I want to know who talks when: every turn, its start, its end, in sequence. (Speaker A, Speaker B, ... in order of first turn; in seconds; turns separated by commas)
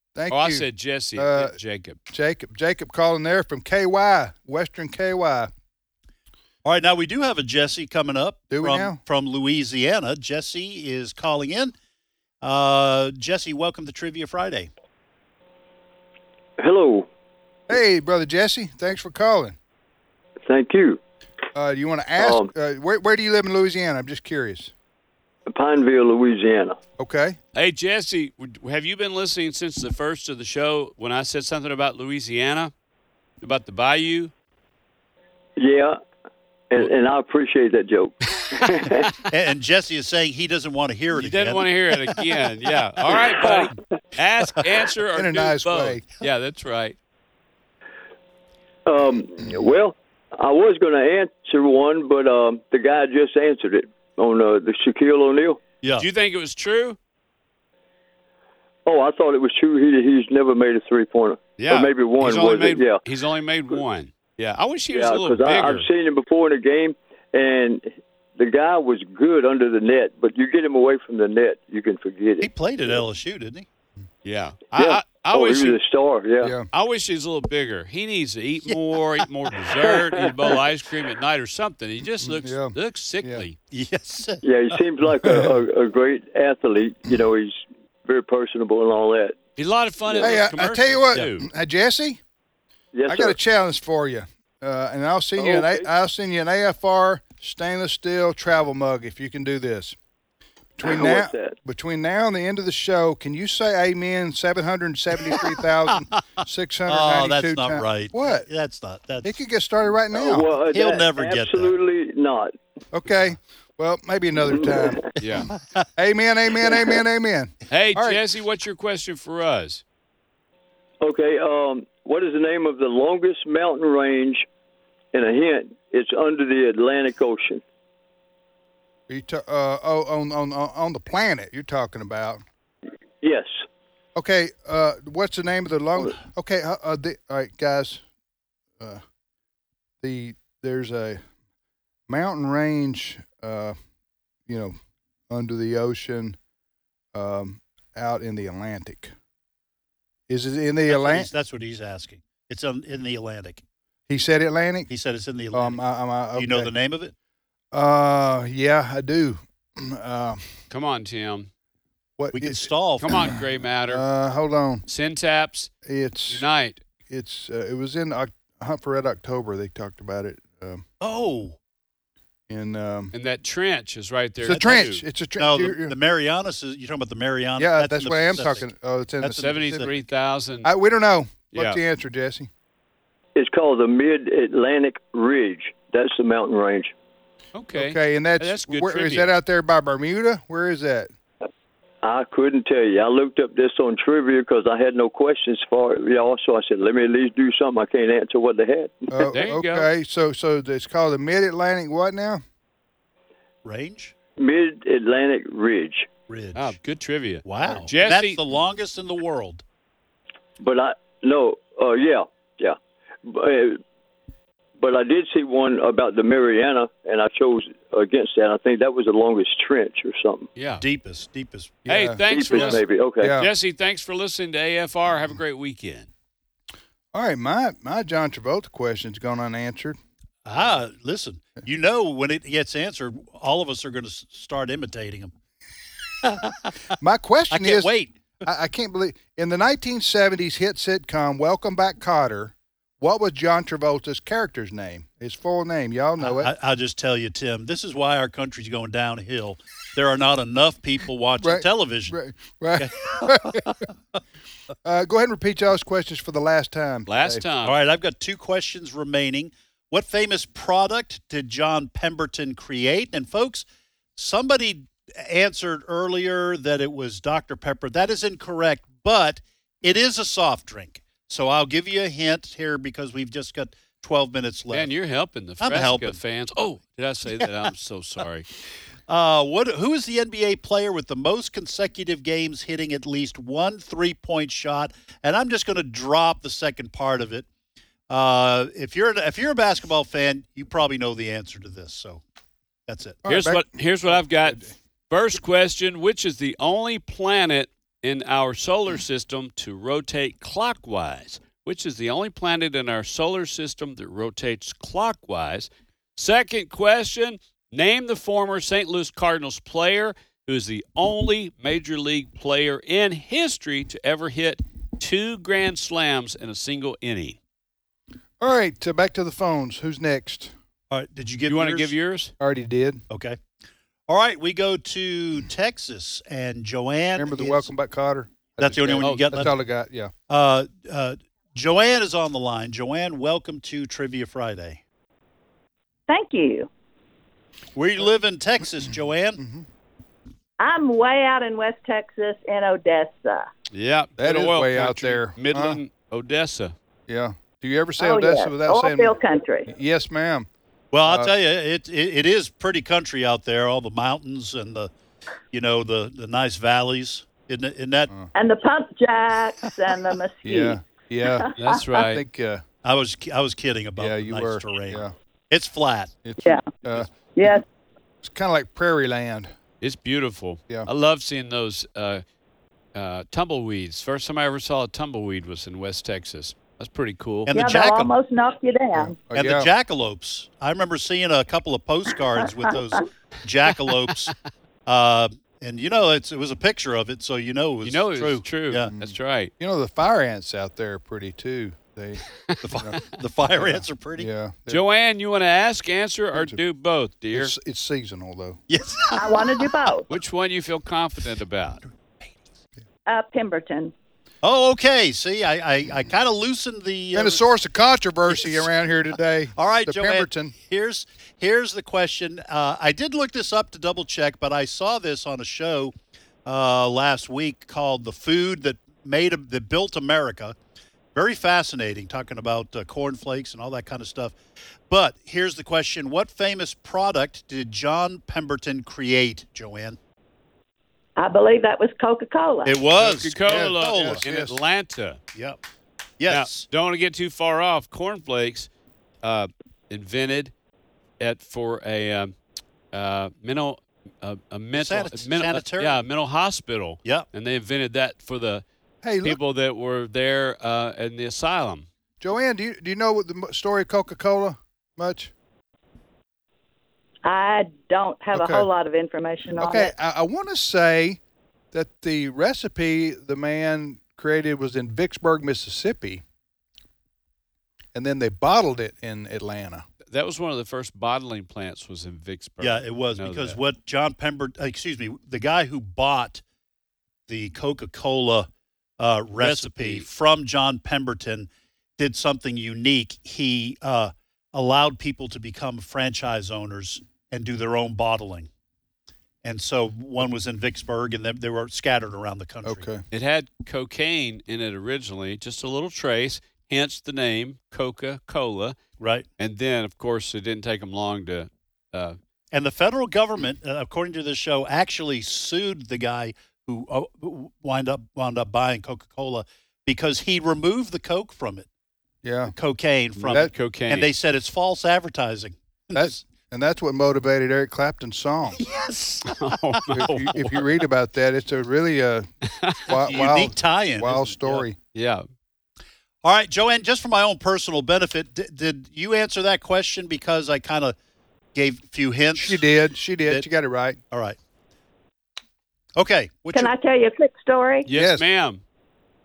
Speaker A: 0.1-0.6, Speaker B: 0.3-2.0, Speaker A: 1.1-1.5, Speaker A: 2.1-5.5, Speaker C: 6.6-11.7, Speaker A: 8.5-9.0, Speaker C: 12.4-14.7, Speaker D: 16.6-17.1, Speaker A: 17.7-19.6, Speaker D: 20.4-21.0, Speaker A: 21.5-24.7, Speaker D: 22.2-22.5, Speaker D: 25.4-26.8, Speaker A: 27.0-27.4, Speaker B: 27.5-32.7, Speaker B: 33.4-34.3, Speaker D: 35.6-36.0, Speaker D: 36.7-39.1, Speaker C: 39.3-42.2, Speaker B: 41.1-47.0, Speaker C: 43.1-43.5, Speaker A: 45.1-46.0, Speaker D: 48.9-55.6, Speaker B: 56.0-57.0, Speaker D: 58.9-63.0, Speaker B: 61.6-65.9, Speaker D: 64.9-73.0, Speaker C: 72.4-73.7, Speaker B: 74.2-75.8, Speaker D: 74.7-76.5, Speaker A: 76.4-76.7, Speaker B: 76.7-83.5, Speaker D: 79.8-80.6, Speaker A: 82.2-83.4, Speaker C: 83.7-84.8, Speaker D: 84.4-89.4, Speaker B: 89.6-91.5, Speaker D: 90.1-90.4, Speaker A: 90.2-92.2, Speaker D: 92.9-93.4, Speaker A: 93.1-100.0, Speaker D: 95.4-95.8, Speaker A: 100.8-108.5, Speaker D: 100.8-101.6, Speaker C: 106.9-109.3, Speaker A: 109.2-110.5, Speaker D: 110.1-112.5, Speaker C: 110.7-111.7, Speaker A: 112.9-115.1, Speaker D: 114.5-115.1, Speaker B: 115.2-115.5, Speaker C: 115.4-115.9, Speaker A: 116.0-118.2, Speaker B: 117.7-119.8, Speaker D: 121.0-124.5, Speaker D: 125.1-127.6, Speaker A: 129.1-132.4, Speaker D: 133.2-133.6, Speaker A: 134.1-138.0, Speaker A: 140.0-141.2, Speaker A: 142.1-143.8, Speaker A: 144.5-144.8, Speaker A: 145.3-146.4, Speaker A: 147.1-149.1, Speaker A: 150.3-151.3, Speaker C: 150.9-153.6, Speaker A: 154.1-154.9, Speaker C: 154.9-155.8, Speaker A: 155.5-156.7, Speaker C: 156.3-157.1, Speaker A: 157.7-160.4, Speaker B: 160.7-161.5, Speaker A: 162.2-164.8, Speaker C: 162.3-163.2, Speaker B: 163.0-164.0, Speaker B: 164.9-165.7, Speaker A: 165.8-166.4, Speaker B: 166.3-166.8, Speaker A: 167.1-170.8, Speaker C: 171.0-171.6, Speaker A: 172.5-173.1, Speaker B: 173.1-175.0, Speaker A: 174.4-175.9, Speaker C: 174.5-174.8, Speaker C: 175.4-178.6, Speaker A: 177.6-179.9, Speaker C: 179.2-179.9, Speaker B: 179.3-180.7, Speaker A: 180.6-182.5, Speaker B: 181.5-181.8, Speaker D: 183.3-186.9, Speaker B: 187.5-189.3, Speaker A: 187.7-191.1, Speaker D: 192.0-199.2, Speaker A: 199.1-202.4, Speaker B: 199.3-199.9, Speaker C: 203.6-204.1, Speaker D: 204.4-206.1, Speaker C: 206.3-206.7, Speaker B: 206.5-208.4, Speaker C: 207.4-209.6, Speaker D: 210.6-213.8, Speaker D: 214.8-220.5, Speaker B: 220.6-220.8, Speaker C: 220.8-221.8, Speaker A: 221.8-223.5, Speaker B: 221.9-226.1, Speaker D: 222.3-223.4, Speaker A: 227.1-230.0, Speaker C: 230.4-235.3, Speaker C: 236.2-236.7, Speaker A: 237.0-246.5, Speaker C: 237.5-238.2, Speaker C: 246.2-252.2, Speaker A: 251.4-253.8, Speaker C: 252.8-253.9, Speaker A: 254.8-257.4, Speaker B: 257.1-257.8, Speaker C: 257.6-274.9, Speaker B: 274.7-278.5, Speaker C: 275.6-276.2, Speaker C: 279.1-287.4, Speaker C: 288.1-292.2, Speaker C: 292.9-293.2, Speaker A: 293.2-294.7, Speaker B: 293.3-317.4, Speaker A: 318.4-320.5, Speaker C: 320.9-321.9, Speaker B: 321.5-322.3, Speaker A: 322.4-323.0, Speaker C: 323.1-323.4, Speaker C: 324.1-327.7, Speaker A: 327.1-330.1, Speaker C: 328.6-329.5, Speaker B: 329.0-329.5, Speaker C: 330.3-334.8, Speaker E: 336.1-336.7, Speaker C: 337.7-339.4, Speaker A: 339.4-339.7, Speaker E: 340.6-343.5, Speaker B: 343.7-346.7, Speaker A: 344.2-345.8, Speaker A: 347.1-349.1, Speaker E: 348.0-349.7, Speaker A: 349.7-350.5, Speaker C: 350.9-354.9, Speaker A: 351.0-351.3, Speaker C: 355.5-358.1, Speaker E: 358.3-361.8, Speaker A: 360.4-362.6, Speaker B: 361.6-362.2, Speaker C: 362.8-366.1, Speaker A: 364.0-365.1, Speaker A: 366.2-367.1, Speaker E: 367.4-367.6, Speaker A: 368.2-369.5, Speaker B: 369.8-372.2, Speaker B: 372.9-377.5, Speaker C: 377.5-378.1, Speaker E: 377.5-379.1, Speaker A: 379.0-379.7, Speaker C: 379.3-384.3, Speaker C: 384.9-388.9, Speaker B: 387.8-389.5, Speaker A: 388.8-393.0, Speaker C: 392.6-394.3, Speaker A: 393.5-394.8, Speaker B: 394.7-397.5, Speaker A: 396.3-396.6, Speaker A: 397.3-398.6, Speaker C: 398.7-399.7, Speaker E: 399.1-400.1, Speaker B: 400.1-401.8, Speaker E: 403.1-403.9, Speaker C: 404.4-407.4, Speaker A: 407.1-410.5, Speaker C: 408.3-408.6, Speaker C: 409.6-420.6, Speaker C: 421.1-424.4, Speaker C: 424.9-430.0, Speaker E: 431.2-432.8, Speaker C: 432.6-434.2, Speaker B: 433.0-435.2, Speaker A: 433.4-434.6, Speaker C: 436.2-436.7, Speaker B: 436.3-438.7, Speaker B: 439.2-440.5, Speaker B: 441.2-442.3, Speaker B: 442.9-448.6, Speaker C: 444.7-446.0, Speaker A: 449.0-449.4, Speaker B: 449.2-451.9, Speaker A: 452.2-455.3, Speaker E: 457.2-459.9, Speaker A: 458.3-458.7, Speaker A: 459.6-461.2, Speaker A: 461.7-466.2, Speaker A: 467.9-469.8, Speaker B: 470.1-473.6, Speaker C: 472.6-476.4, Speaker C: 477.3-478.5, Speaker C: 479.0-488.5, Speaker B: 479.4-480.1, Speaker C: 489.4-492.8, Speaker A: 492.6-493.0, Speaker B: 493.1-498.8, Speaker C: 499.0-499.3, Speaker B: 499.4-502.2, Speaker C: 502.5-511.7, Speaker A: 512.2-512.5, Speaker C: 512.5-516.2, Speaker B: 513.1-514.1, Speaker A: 515.9-518.6, Speaker C: 518.5-520.0, Speaker B: 519.2-520.6, Speaker A: 519.9-522.3, Speaker B: 522.6-522.9, Speaker A: 522.8-524.8, Speaker C: 522.9-524.6, Speaker B: 524.9-525.2, Speaker C: 526.2-531.0, Speaker C: 531.5-532.6, Speaker A: 532.3-534.0, Speaker C: 534.1-534.4, Speaker C: 536.0-536.7, Speaker E: 536.5-537.9, Speaker B: 537.9-538.6, Speaker A: 537.9-538.2